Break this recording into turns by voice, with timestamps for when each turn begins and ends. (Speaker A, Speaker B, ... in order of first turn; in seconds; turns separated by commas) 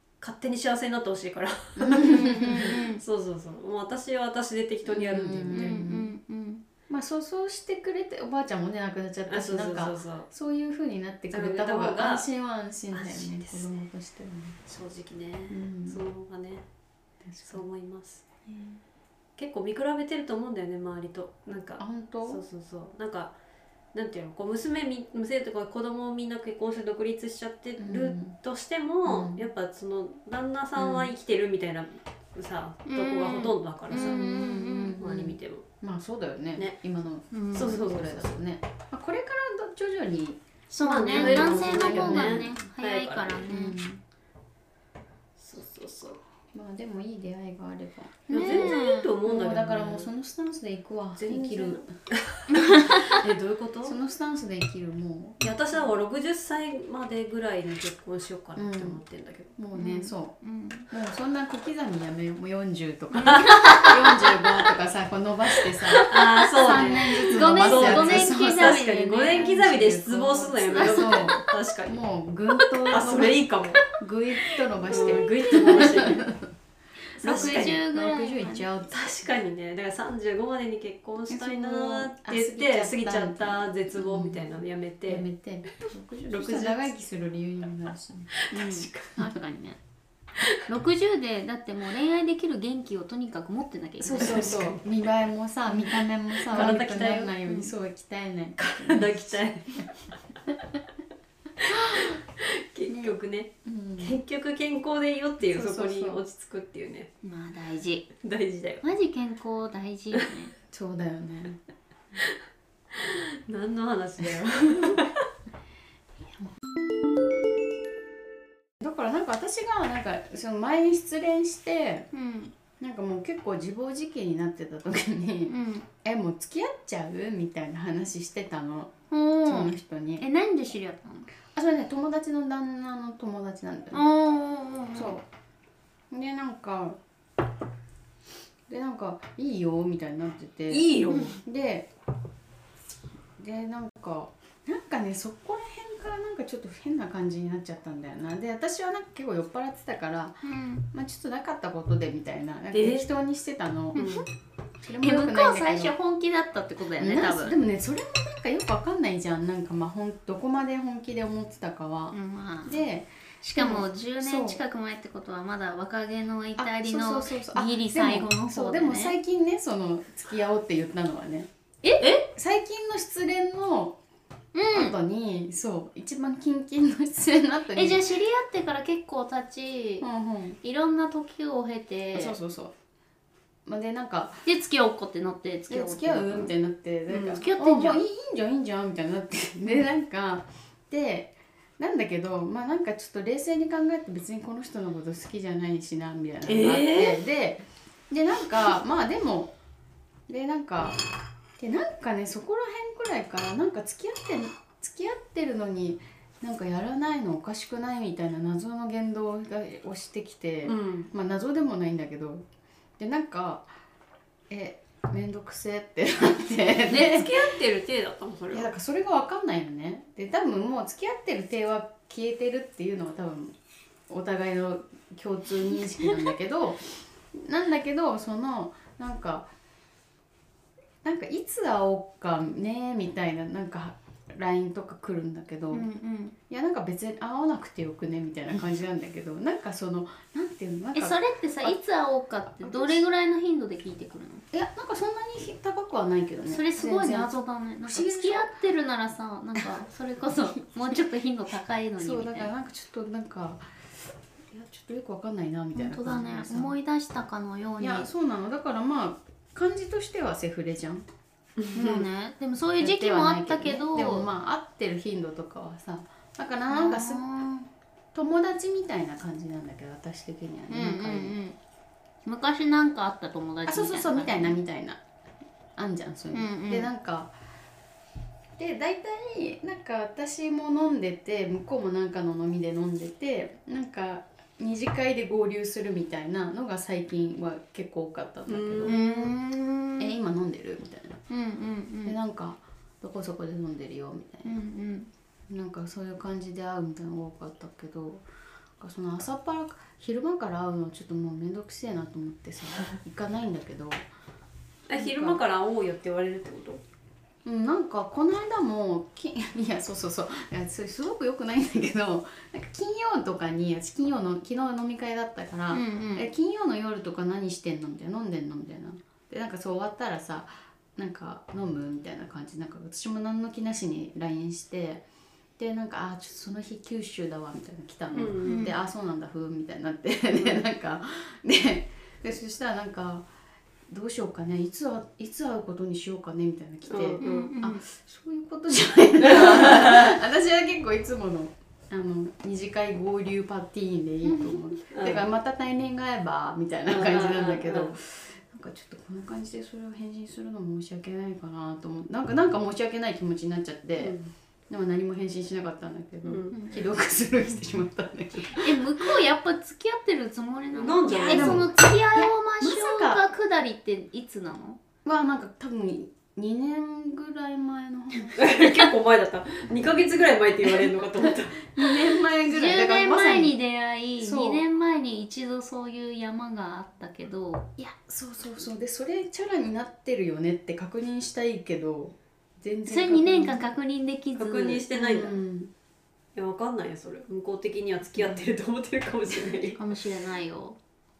Speaker A: 0.2-5.8, Speaker B: 1.8-2.8, Speaker C: 2.0-3.0, Speaker B: 4.9-6.1, Speaker C: 5.5-6.6, Speaker B: 6.9-14.6, Speaker A: 9.3-10.3, Speaker A: 11.3-12.3, Speaker A: 12.9-13.7, Speaker A: 14.7-16.6, Speaker B: 15.5-16.0, Speaker B: 17.3-17.6, Speaker A: 17.4-18.2, Speaker C: 18.5-18.8, Speaker A: 19.4-23.4, Speaker B: 21.8-22.4, Speaker A: 23.9-34.2, Speaker B: 27.8-28.4, Speaker B: 29.1-29.4, Speaker B: 30.8-31.1, Speaker C: 32.9-35.0, Speaker B: 33.9-40.4, Speaker A: 35.0-35.6, Speaker C: 37.3-37.7, Speaker A: 37.5-38.3, Speaker C: 40.7-43.9, Speaker A: 40.8-43.7, Speaker B: 41.1-42.5, Speaker B: 43.5-44.0, Speaker A: 45.4-46.2, Speaker B: 46.5-51.9, Speaker C: 48.3-49.1, Speaker A: 48.3-50.1, Speaker A: 51.2-54.0, Speaker C: 52.5-53.1, Speaker B: 53.2-55.4, Speaker A: 55.4-59.6, Speaker B: 58.6-59.0, Speaker B: 59.6-60.4, Speaker C: 59.7-60.9, Speaker B: 60.9-76.5, Speaker C: 63.2-64.3, Speaker A: 63.2-64.5, Speaker A: 65.6-72.0, Speaker C: 66.6-69.5, Speaker C: 70.8-71.5, Speaker C: 72.6-72.9, Speaker A: 72.9-73.8, Speaker A: 74.8-76.2, Speaker C: 75.0-76.1, Speaker A: 77.2-77.8, Speaker C: 77.2-78.7, Speaker B: 77.2-79.1, Speaker A: 78.9-85.3, Speaker B: 81.3-84.4, Speaker B: 85.1-88.3, Speaker A: 86.3-86.9, Speaker A: 88.4-89.1, Speaker C: 88.5-89.8, Speaker C: 90.7-94.5, Speaker B: 94.0-99.4, Speaker A: 94.0-94.8, Speaker A: 96.4-97.3, Speaker C: 97.5-97.7, Speaker A: 98.6-99.8, Speaker A: 101.6-107.1, Speaker B: 101.7-102.1, Speaker B: 102.9-104.2, Speaker B: 105.5-106.2, Speaker C: 107.2-108.1, Speaker A: 108.2-108.8, Speaker C: 108.8-110.5, Speaker B: 110.7-111.6, Speaker A: 112.9-115.2, Speaker B: 118.8-122.1, Speaker C: 122.1-122.5, Speaker B: 122.8-128.9, Speaker C: 125.5-125.9, Speaker C: 129.1-131.3, Speaker B: 129.5-130.2, Speaker B: 131.5-134.1, Speaker C: 133.9-135.2, Speaker B: 134.9-135.2, Speaker B: 136.1-137.0, Speaker B: 138.7-141.9, Speaker A: 140.7-141.3, Speaker B: 143.4-154.0, Speaker C: 150.4-150.8, Speaker A: 152.7-153.1, Speaker A: 153.9-154.2, Speaker C: 153.9-154.3, Speaker B: 154.8-155.9, Speaker C: 155.0-157.6, Speaker B: 157.0-164.6, Speaker C: 162.1-162.8, Speaker C: 163.4-169.2, Speaker B: 166.6-171.5, Speaker C: 171.8-172.3, Speaker B: 172.3-174.0, Speaker C: 174.6-174.9, Speaker B: 174.7-178.0, Speaker C: 177.7-180.1, Speaker B: 180.0-180.6, Speaker C: 180.6-182.4, Speaker B: 182.1-182.7, Speaker B: 183.7-184.5, Speaker C: 184.4-186.5, Speaker B: 185.7-199.5, Speaker A: 187.1-187.4, Speaker C: 187.3-188.0, Speaker A: 196.4-197.2, Speaker B: 200.3-201.0, Speaker B: 201.6-212.5, Speaker A: 210.7-211.1, Speaker B: 213.0-213.7, Speaker B: 214.5-217.3, Speaker A: 216.9-218.7, Speaker B: 218.5-223.6, Speaker B: 224.1-229.5, Speaker B: 231.0-235.9, Speaker C: 235.7-236.3, Speaker B: 236.5-241.8, Speaker C: 240.9-244.5, Speaker B: 242.6-243.0, Speaker B: 244.5-248.5, Speaker C: 246.5-252.5, Speaker B: 252.0-253.8, Speaker B: 254.5-256.8, Speaker C: 255.7-258.1, Speaker B: 257.8-261.1, Speaker A: 261.6-262.0, Speaker C: 261.7-264.3, Speaker B: 262.8-267.2, Speaker C: 266.7-267.7, Speaker B: 268.1-271.4, Speaker C: 270.7-271.6, Speaker C: 272.2-274.6, Speaker B: 273.6-275.0, Speaker B: 275.8-277.3, Speaker C: 276.3-276.9, Speaker B: 278.6-289.3, Speaker A: 288.5-289.0, Speaker C: 288.9-290.1, Speaker B: 290.0-291.2, Speaker C: 291.3-292.2, Speaker B: 292.1-294.6, Speaker C: 294.4-295.1, Speaker B: 295.5-298.3, Speaker B: 298.8-304.1, Speaker A: 304.9-306.8, Speaker B: 305.0-305.4, Speaker B: 307.4-325.0, Speaker C: 315.7-316.3, Speaker B: 325.6-333.3, Speaker A: 328.1-328.6, Speaker C: 328.4-328.8, Speaker B: 333.9-354.2, Speaker A: 336.9-337.5, Speaker C: 337.2-337.8, Speaker A: 339.3-340.1, Speaker C: 344.2-344.8, Speaker A: 344.9-345.2, Speaker A: 346.9-347.9, Speaker A: 354.0-354.3, Speaker B: 354.7-359.0, Speaker A: 356.2-356.6, Speaker C: 356.5-356.8, Speaker C: 358.5-364.8, Speaker A: 360.7-361.7, Speaker B: 361.1-363.3, Speaker B: 365.1-368.8, Speaker A: 368.4-371.6, Speaker B: 370.6-373.6, Speaker C: 372.4-377.7, Speaker B: 374.2-374.6, Speaker B: 377.8-383.6, Speaker C: 382.9-384.9, Speaker A: 384.4-385.4, Speaker B: 384.9-385.7, Speaker A: 386.4-389.8, Speaker B: 388.2-388.5, Speaker C: 389.7-390.8